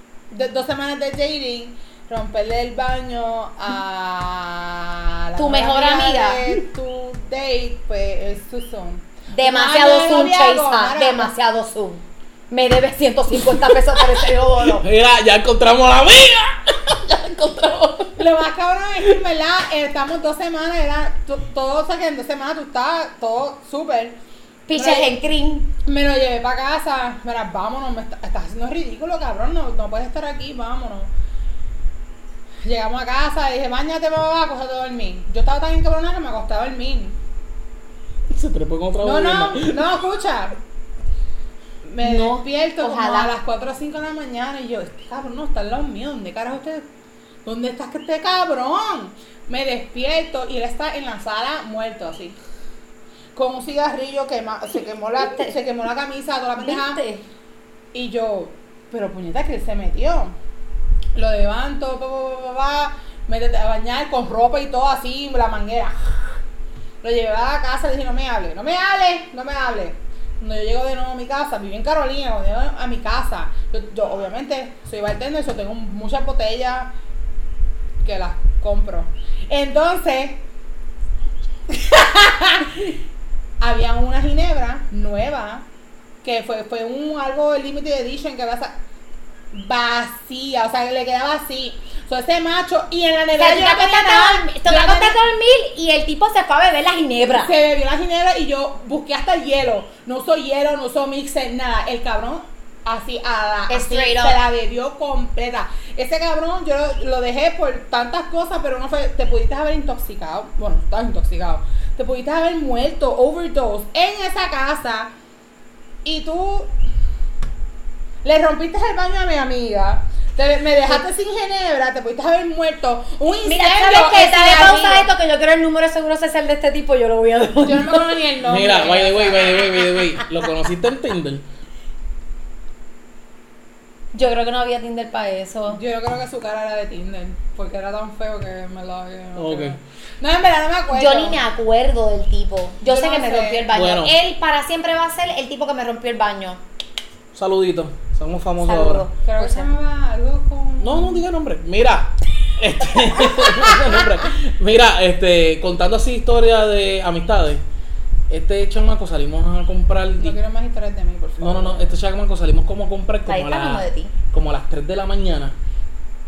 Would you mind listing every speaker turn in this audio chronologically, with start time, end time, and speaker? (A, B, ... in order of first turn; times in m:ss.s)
0:00.3-0:11.3 A
0:05.4-0:06.4 B
0:09.3-0:14.8 B
0:13.4-0:18.2 C
0:18.2-0:24.2 A
0:24.7-0:25.7 B
0:24.7-0:25.1 A
0:25.8-0:31.1 A
0:32.6-0:37.2 A
0:38.3-0:39.8 C
0:39.0-0:40.6 A
0:41.8-0:46.9 A
0:42.0-0:43.3 B
0:47.4-0:52.4 A
0:53.4-0:57.0 A
0:55.2-0:55.5 B
0:56.6-0:57.2 B
0:57.9-1:00.3 A
1:01.2-1:06.0 A
1:07.0-1:16.9 A
1:18.0-1:20.4 A
1:21.7-1:22.8 A
1:23.6-1:25.7 A
1:26.2-1:28.7 A
1:29.5-1:35.2 A
1:33.4-1:37.5 B
1:37.3-1:55.1 A
1:43.7-1:44.4 B
1:56.0-1:56.7 A
1:58.2-2:05.1 A
2:03.4-2:08.2 B
2:07.6-2:09.7 A
2:08.4-2:11.4 C
2:14.1-2:15.8 B
2:15.7-2:21.4 A
2:19.4-2:19.8 C
2:20.9-2:26.6 B
2:22.8-2:23.7 A
2:23.7-2:24.2 C
2:27.3-2:29.1 C
2:28.6-2:29.7 B
2:29.2-2:31.2 A
2:30.8-2:37.6 C
2:38.3-2:40.4 C
2:40.2-2:41.9 A
2:41.4-2:45.6 C
2:43.3-2:44.2 B